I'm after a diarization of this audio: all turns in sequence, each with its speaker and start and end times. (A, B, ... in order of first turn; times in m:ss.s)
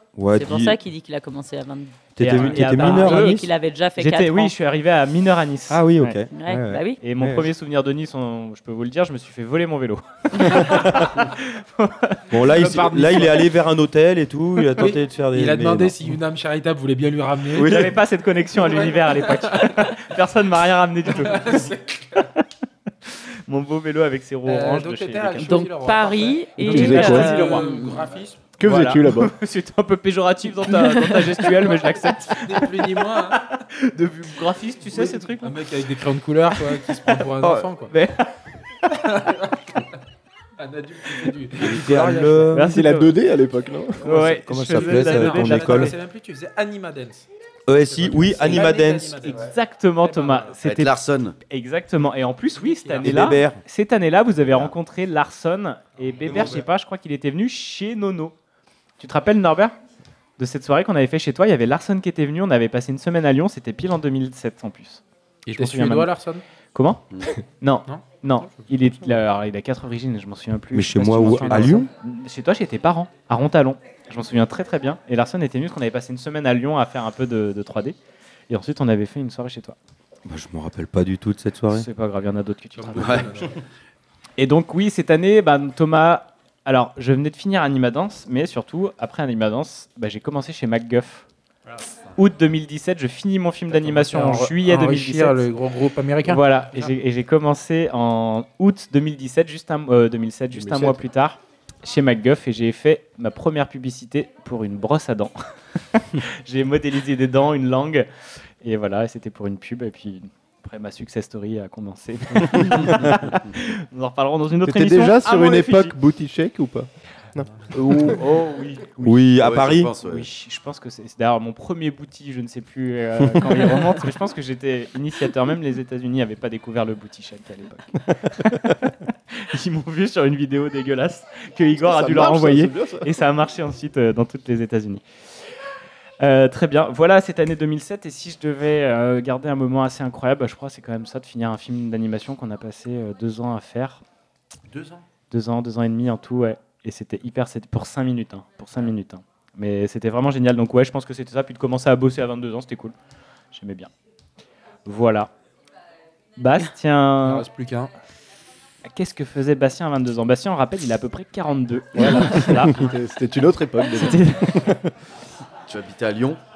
0:00.2-0:00.8 A
0:00.3-0:04.5 B
0:02.1-0:03.5 A
0:02.2-0:03.4 C
0:04.0-0:06.2 C
0:05.7-0:07.5 A
0:06.3-0:07.0 B
0:07.0-0:12.7 C
0:10.4-0:11.2 A
0:12.3-0:16.1 A
0:12.5-0:13.4 D
0:14.8-0:17.9 D
0:17.5-0:18.0 A
0:17.6-0:21.7 C
0:18.5-0:20.0 D
0:21.1-0:22.3 D
0:23.1-0:25.7 C
0:24.4-0:28.4 D
0:25.4-0:28.0 B
0:26.6-0:27.4 E
0:26.7-0:27.8 C
0:28.6-0:29.4 E
0:28.6-0:35.6 C
0:32.3-0:33.4 D
0:34.9-0:37.9 D
0:36.8-0:38.3 C
0:38.9-0:39.6 D
0:40.6-0:42.5 D
0:41.6-0:42.6 A
0:42.5-0:43.2 C
0:42.5-0:44.0 E
0:44.0-0:45.9 C
0:44.1-0:45.9 A
0:44.1-0:47.3 D
0:47.7-0:49.4 A
0:47.8-0:50.5 D
0:49.4-0:58.3 C
0:50.6-0:51.4 F
0:52.6-0:53.4 D
0:53.0-0:53.6 A
0:56.0-0:56.6 D
0:56.3-0:56.6 F
0:59.0-0:59.8 C
1:00.4-1:06.1 C
1:05.4-1:06.4 D
1:06.7-1:07.0 C
1:07.6-1:18.0 C
1:10.7-1:11.9 A
1:11.3-1:11.8 D
1:18.5-1:19.8 C
1:20.2-1:21.9 A
1:21.7-1:23.3 C
1:22.8-1:23.6 D
1:23.0-1:23.3 F
1:24.4-1:31.2 C
1:32.2-1:35.4 C
1:33.7-1:36.9 D
1:36.2-1:45.4 C
1:40.5-1:41.0 E
1:45.9-1:48.1 C
1:48.6-1:55.9 C
1:52.4-1:53.3 A
1:54.6-1:58.2 E
1:57.7-1:59.2 C
1:59.0-1:59.9 A
1:59.3-2:00.3 F
2:00.0-2:15.0 C
2:03.4-2:03.7 A
2:11.7-2:13.1 E
2:16.2-2:24.0 C
2:24.7-2:25.0 D
2:25.3-2:32.9 C
2:33.5-2:33.9 C
2:34.8-2:35.3 C
2:36.4-2:37.4 C
2:37.2-2:37.9 D
2:38.8-2:42.9 C
2:41.9-2:44.5 E
2:43.9-2:44.7 C
2:45.7-2:46.4 F